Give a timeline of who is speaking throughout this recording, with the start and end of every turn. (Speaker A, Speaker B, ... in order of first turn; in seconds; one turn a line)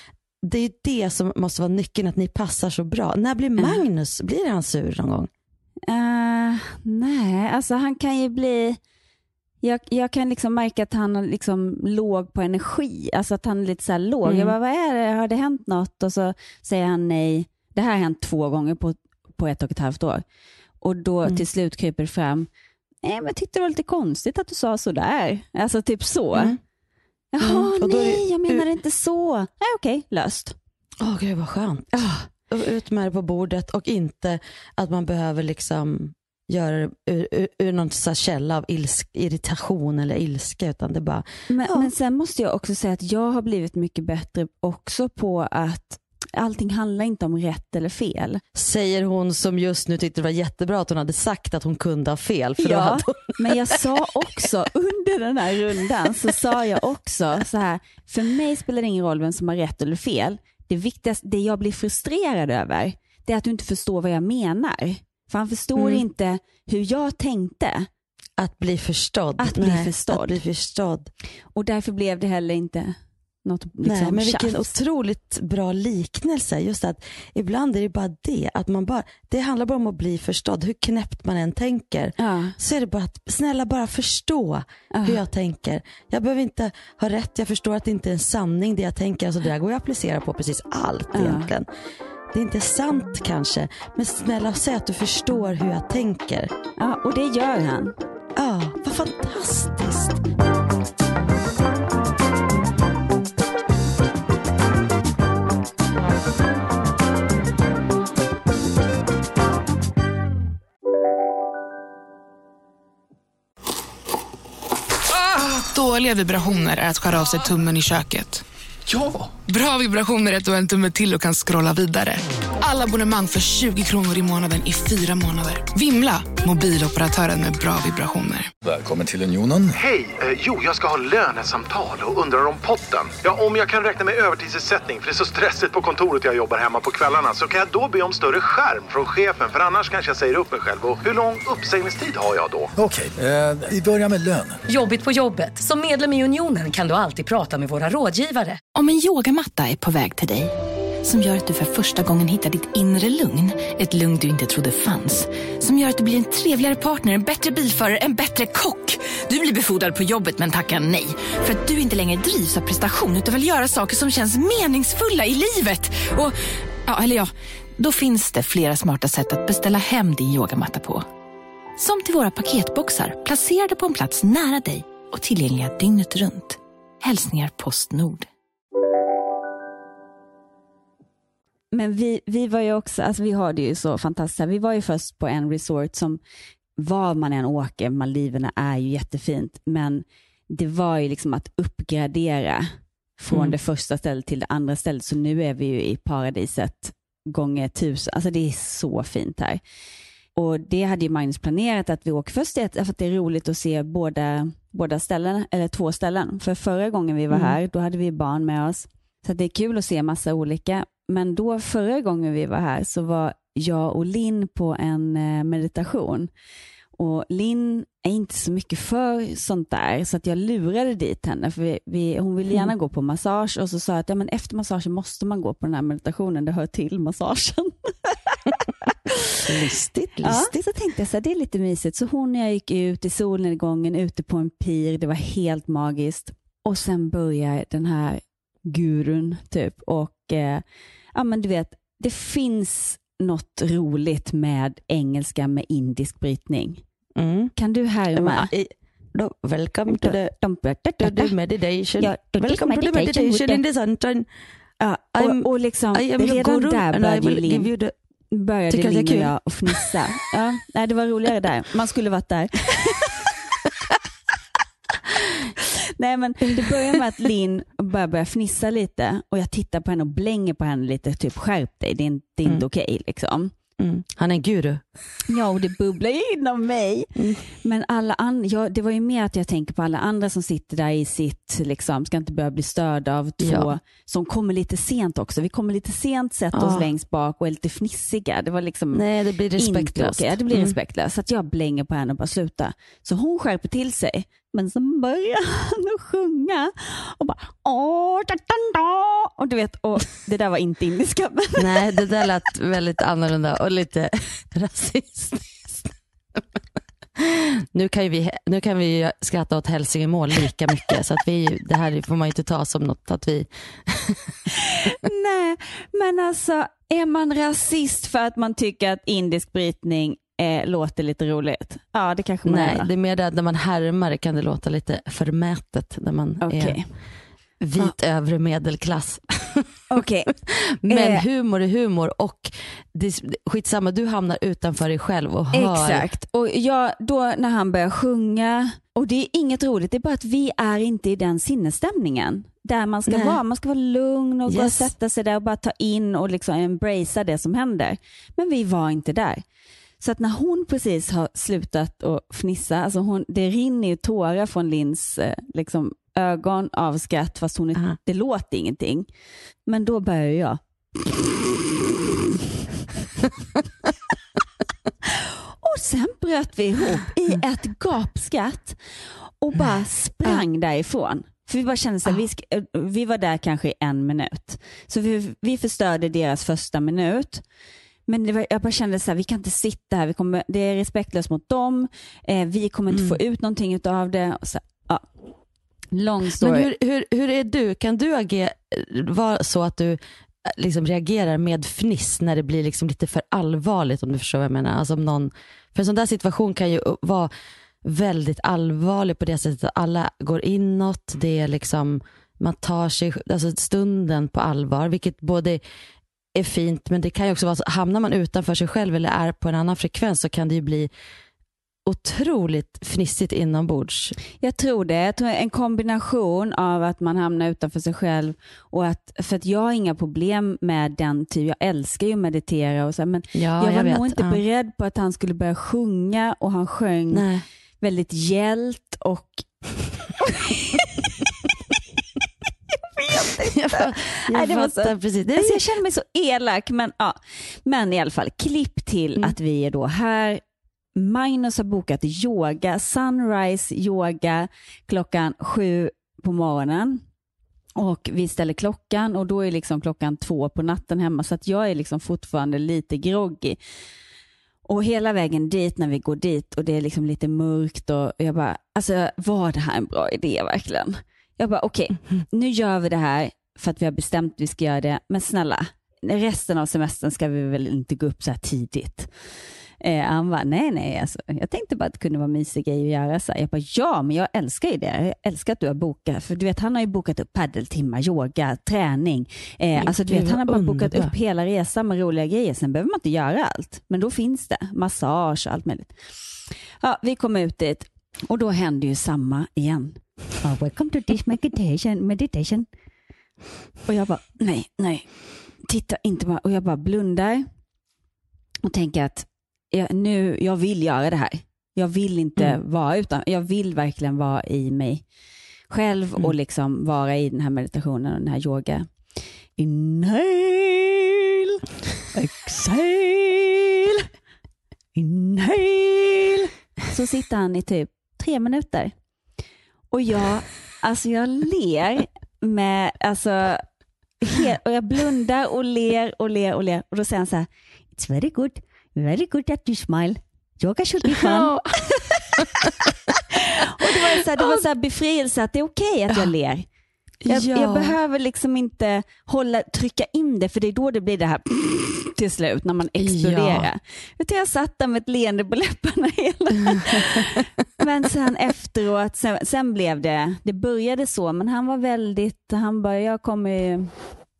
Speaker A: 0.4-5.3
Speaker B: 3.6-3.8
Speaker B: 5.9-8.8
Speaker B: 9.6-20.2
Speaker A: 14.2-14.5
Speaker B: 20.8-22.5
Speaker B: 23.0-26.5
Speaker A: 26.3-26.6
Speaker B: 27.3-30.6
Speaker A: 27.4-28.6
Speaker A: 31.0-41.9
Speaker B: 31.9-32.2
Speaker B: 41.5-48.4
Speaker A: 48.5-53.8
Speaker B: 52.6-67.9
Speaker A: 65.8-66.0
Speaker A: 68.4-71.1
Speaker B: 69.4-70.4
Speaker B: 71.5-74.7
Speaker A: 73.8-91.7
Speaker B: 82.2-82.5
Speaker B: 84.9-85.2
Speaker B: 91.1-91.5
Speaker A: 92.3-96.5
Speaker B: 96.8-98.0
Speaker A: 98.3-100.2
Speaker C: 115.2-118.4
Speaker D: 118.9-119.2
Speaker C: 119.4-128.5
Speaker D: 128.6-129.8
Speaker E: 129.8-142.7
Speaker D: 142.8-144.6
Speaker F: 144.7-148.6
Speaker G: 148.7-150.5
Speaker G: 151.0-166.3
Speaker G: 166.9-171.1
Speaker G: 171.8-178.3
Speaker B: 181.7-186.2
Speaker B: 186.8-199.6
Speaker A: 193.3-193.6
Speaker B: 200.3-216.3
Speaker A: 207.3-207.6
Speaker B: 217.0-229.4
Speaker A: 229.4-230.5
Speaker B: 230.2-240.6
Speaker B: 241.1-246.8
Speaker A: 247.2-247.5
Speaker B: 247.6-248.5
Speaker A: 248.1-250.3
Speaker B: 249.9-251.3
Speaker A: 251.0-254.2
Speaker B: 252.0-253.6
Speaker B: 254.8-257.7
Speaker A: 255.1-257.9
Speaker B: 258.3-263.2
Speaker A: 258.7-259.8
Speaker B: 266.0-273.5
Speaker A: 273.8-274.8
Speaker B: 275.3-277.1
Speaker A: 277.1-277.4
Speaker B: 277.6-289.0
Speaker A: 283.4-283.7
Speaker A: 286.5-286.9
Speaker A: 288.9-290.7
Speaker B: 289.6-301.9
Speaker A: 301.6-306.4
Speaker A: 307.2-314.3
Speaker B: 314.6-322.9
Speaker A: 322.4-326.8
Speaker B: 326.4-326.8
Speaker A: 327.6-336.1
Speaker B: 329.9-330.3
Speaker B: 330.9-331.2
Speaker B: 335.5-349.4
Speaker A: 343.1-343.4
Speaker A: 344.5-344.9
Speaker B: 350.0-359.1
Speaker B: 359.7-360.6
Speaker B: 365.1-368.8
Speaker B: 369.4-377.4
Speaker B: 378.1-385.1
Speaker A: 382.9-383.2
Speaker B: 385.9-386.7
Speaker A: 386.4-397.3
Speaker A: 397.8-405.6
Speaker A: 406.3-410.9
Speaker A: 411.9-414.1
Speaker B: 414.4-427.2
Speaker A: 423.3-424.4
Speaker A: 427.1-427.4
Speaker B: 427.8-429.4
Speaker B: 430.2-431.1
Speaker B: 432.9-440.4
Speaker A: 433.5-435.6
Speaker B: 440.9-447.0
Speaker B: 447.8-453.6
Speaker B: 454.7-469.1
Speaker B: 469.8-485.9
Speaker A: 479.8-481.1
Speaker B: 486.8-492.6
Speaker B: 493.9-495.1
Speaker B: 495.6-497.5
Speaker B: 498.6-505.0
Speaker B: 505.7-508.9
Speaker B: 509.6-511.6
Speaker B: 512.1-514.0
Speaker B: 515.0-518.9
Speaker B: 519.9-523.6
Speaker B: 524.2-531.5
Speaker A: 531.1-532.6
Speaker B: 533.3-536.6
Speaker A: 537.2-538.0
Speaker B: 537.3-553.9
Speaker A: 543.0-543.7
Speaker A: 546.8-547.2